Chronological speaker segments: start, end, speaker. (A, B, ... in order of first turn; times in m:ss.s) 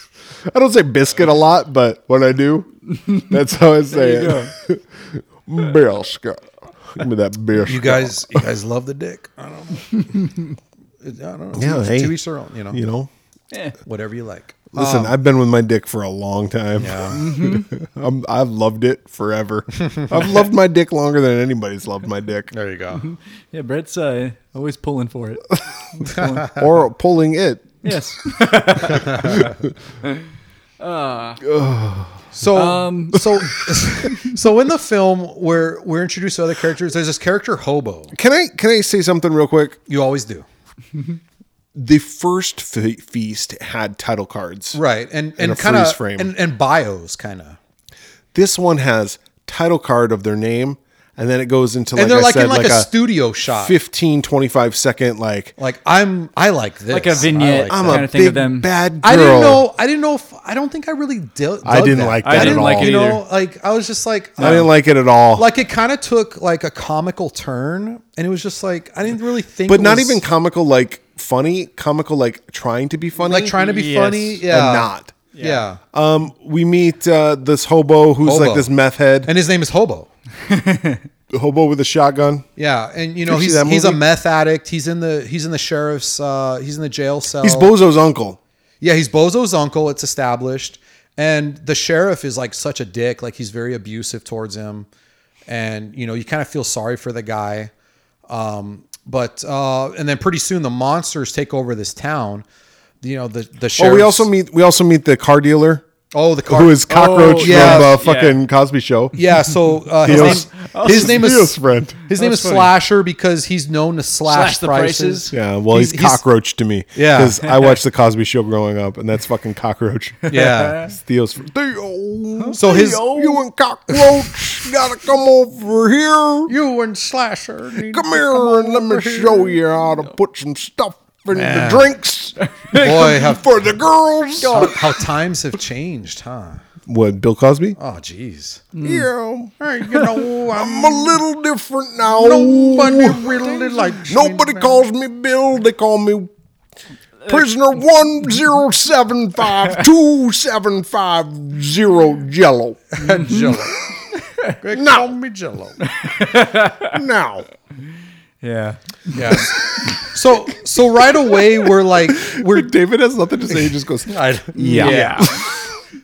0:00.4-0:08.5 A
0:03.9-0:04.5 B
0:07.6-0:10.3 C
0:11.0-0:12.8 C
0:11.5-0:12.2 A
0:12.7-0:13.1 A
0:13.5-0:13.8 B
0:13.8-0:15.1 C
0:14.7-0:22.5 A
0:16.8-0:17.2 C
0:17.1-0:17.7 B
0:22.5-0:23.0 C
0:23.0-0:26.7 B
0:26.5-0:27.8 A
0:27.8-0:29.5 B
0:29.0-0:29.4 C
0:29.2-0:29.5 A
0:30.8-0:31.4 B
0:31.4-0:32.2 A
0:32.3-0:38.1 C
0:32.5-0:33.5 B
0:38.1-0:39.8 A
0:39.9-0:40.5 C
0:41.8-0:44.8 A
0:44.7-0:47.6 C
0:45.4-0:46.3 A
0:48.3-0:52.9 A
0:52.0-0:53.8 C
0:53.5-0:55.5 A
0:55.6-0:58.1 C
0:56.9-0:58.7 B
0:57.7-0:59.6 A
0:59.0-1:04.7 C
1:01.6-1:03.0 A
1:02.2-1:03.2 B
1:04.4-1:05.5 A
1:04.4-1:04.7 B
1:05.4-1:10.2 C
1:09.7-1:15.2 A
1:13.2-1:15.8 C
1:13.6-1:14.4 B
1:15.3-1:15.7 B
1:15.9-1:19.3 A
1:18.2-1:18.7 C
1:19.2-1:20.1 C
1:20.5-1:21.0 B
1:21.3-1:22.5 A
1:22.6-1:27.7 C
1:23.2-1:24.0 A
1:27.4-1:28.4 A
1:28.8-1:34.9 C
1:35.5-1:37.7 C
1:38.3-1:42.4 C
1:43.0-1:44.3 C
1:43.8-1:45.9 A
1:46.1-1:48.0 C
1:46.5-1:49.2 A
1:46.9-1:48.4 B
1:49.2-1:56.2 C
1:50.0-1:51.4 B
1:50.0-1:52.1 A
1:52.2-1:52.7 B
1:54.3-1:55.4 B
1:55.3-2:06.5 A
1:57.0-1:57.4 C
2:00.3-2:00.8 C
2:00.3-2:00.9 B
2:02.4-2:03.4 B
2:02.6-2:03.4 C
2:06.5-2:09.6 C
2:07.9-2:12.4 A
2:11.3-2:11.9 C
2:12.4-2:13.3 B
2:12.7-2:13.4 C
2:12.9-2:14.7 A
2:14.4-2:15.0 B
2:14.4-2:16.6 C
2:16.9-2:17.8 A
2:17.8-2:18.7 C
2:18.7-2:19.1 B
2:18.8-2:19.5 A
2:19.6-2:21.2 C
2:20.4-2:26.3 A
2:22.1-2:24.8 C
2:27.3-2:32.8 A
2:32.9-2:33.8 C
2:33.0-2:33.7 B
2:34.3-2:34.5 B
2:34.6-2:35.8 C
2:34.7-2:35.1 A
2:35.8-2:37.0 B
2:36.9-2:37.5 A
2:38.4-2:39.5 B
2:39.1-2:42.7 C
2:42.2-2:45.7 A
2:44.1-2:45.3 C
2:44.6-2:45.4 B